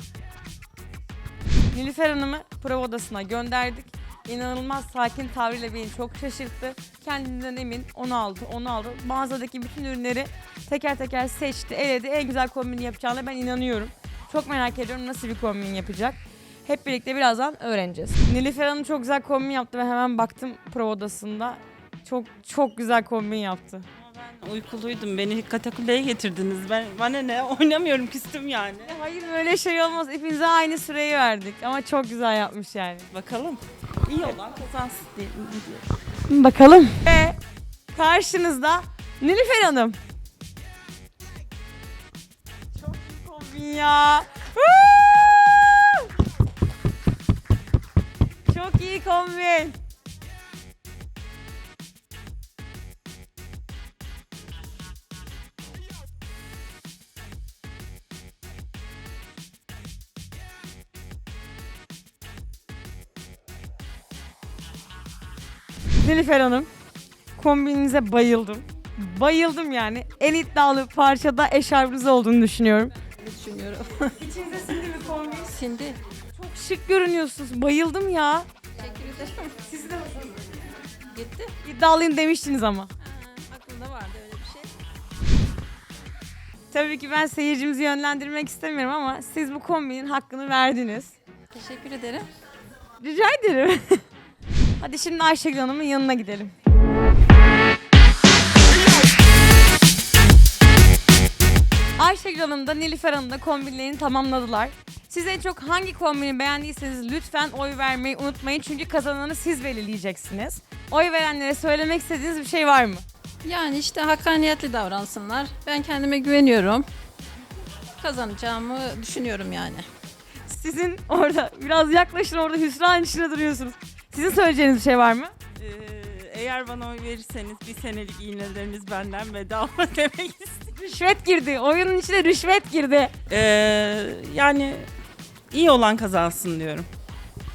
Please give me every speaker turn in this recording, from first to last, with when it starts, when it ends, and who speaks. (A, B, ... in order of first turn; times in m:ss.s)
0:01.7-0:23.9 A
0:24.0-0:29.0 B
0:28.8-0:33.1 A
0:33.1-0:35.8 B
0:36.3-0:37.4 A
0:37.9-0:40.0 A
0:42.8-0:46.1 A
0:48.4-0:49.8 A
1:06.0-1:06.7 A
1:07.3-1:12.9 A
1:13.2-1:14.2 C
1:14.2-1:15.5 A
1:15.4-1:16.0 C
1:16.3-1:18.5 A
1:18.7-1:19.7 C
1:19.7-1:20.5 A
1:20.9-1:21.5 C
1:21.6-1:22.9 A
1:23.0-1:24.7 C
1:26.7-1:31.1 A
1:31.5-1:32.3 C
1:33.0-1:34.0 A
1:34.8-1:36.5 A
1:42.0-1:53.0 A
1:53.4-1:56.8 C
1:58.0-1:59.9 C
2:00.5-2:05.3 A
2:05.6-2:10.7 B
2:10.8-2:13.1 A
2:13.3-2:14.9 B
2:15.5-2:16.9 B